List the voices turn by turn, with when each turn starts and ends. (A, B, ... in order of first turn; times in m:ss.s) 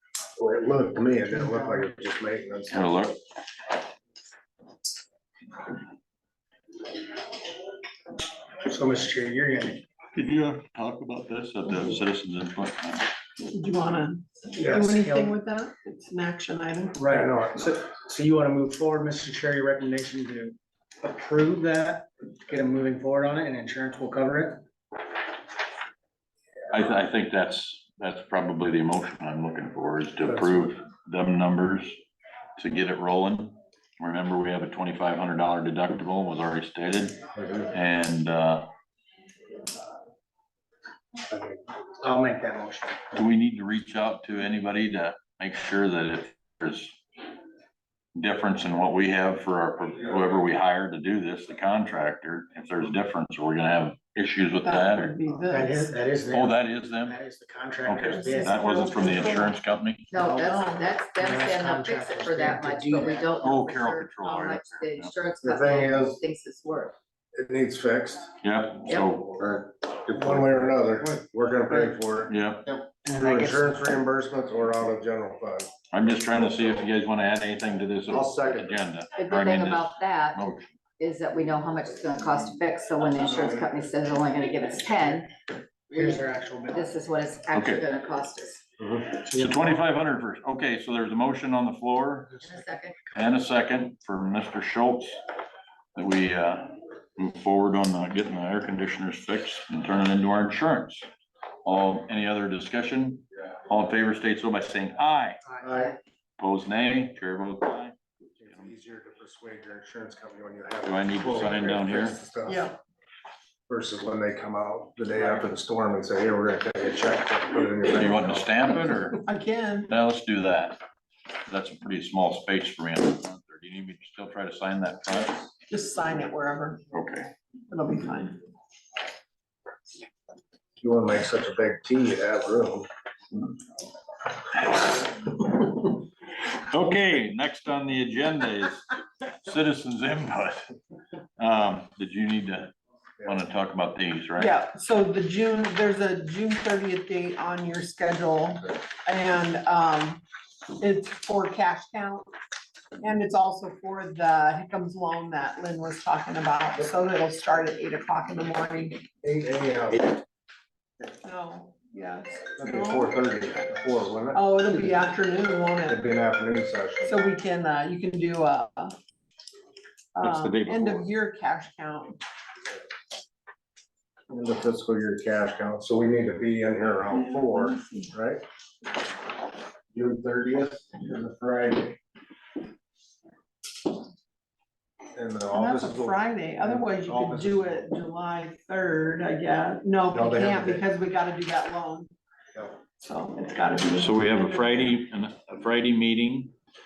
0:00.4-0:02.9 A
0:01.3-0:01.9 B
0:02.7-0:03.2 C
0:08.6-0:09.8 B
0:10.1-0:13.1 C
0:13.4-0:17.0 D
0:14.5-0:15.3 B
0:16.9-0:24.6 B
0:17.1-0:17.6 A
0:26.7-0:32.0 C
0:32.6-0:38.7 C
0:37.4-0:37.7 A
0:41.3-0:43.0 B
0:43.1-0:47.0 C
0:48.2-0:55.1 C
0:54.6-0:56.0 D
0:55.5-0:59.3 B
0:56.3-0:57.2 C
0:57.8-1:00.1 C
0:58.1-0:59.6 D
1:00.1-1:07.0 E
1:00.2-1:00.4 B
1:00.4-1:00.9 D
1:01.1-1:03.4 B
1:03.4-1:05.1 C
1:05.4-1:06.2 A
1:07.4-1:08.3 A
1:08.4-1:09.3 C
1:09.4-1:15.7 A
1:12.3-1:12.6 C
1:13.0-1:13.8 B
1:15.9-1:20.7 C
1:18.1-1:18.8 A
1:19.2-1:20.4 E
1:21.0-1:25.3 E
1:25.9-1:26.9 B
1:26.0-1:28.6 E
1:27.5-1:27.8 C
1:28.8-1:29.2 A
1:29.3-1:32.4 C
1:29.3-1:29.8 B
1:32.4-1:33.0 E
1:33.1-1:35.2 C
1:36.0-1:41.1 C
1:41.6-1:45.4 C
1:45.5-1:45.7 B
1:45.6-1:45.9 A
1:46.4-1:48.0 C
1:48.4-1:52.7 A
1:50.8-1:52.2 C
1:52.5-1:52.8 D
1:53.7-1:58.4 A
1:57.9-1:59.2 C
1:59.2-1:59.9 D
1:59.9-2:00.8 C
2:01.5-2:05.5 C
2:05.7-2:06.8 D
2:06.9-2:07.3 C
2:07.7-2:08.4 D
2:10.8-2:12.9 A
2:14.7-2:15.9 C
2:16.7-2:20.7 C
2:21.4-2:22.7 C
2:23.2-2:24.6 C
2:24.4-2:30.2 D
2:30.8-2:32.3 D
2:33.0-2:39.0 D
2:39.2-2:40.1 A
2:41.2-2:43.1 D
2:42.6-2:45.0 A
2:44.3-2:46.0 D
2:45.9-2:47.2 A
2:47.0-2:49.0 D
2:50.2-2:52.2 D
2:50.2-2:51.1 C
2:54.3-2:58.4 A
2:57.1-2:58.1 D
2:59.9-3:02.0 A
3:05.2-3:07.9 A
3:05.5-3:12.1 D
3:10.1-3:10.9 A
3:12.9-3:14.8 D
3:13.9-3:16.5 C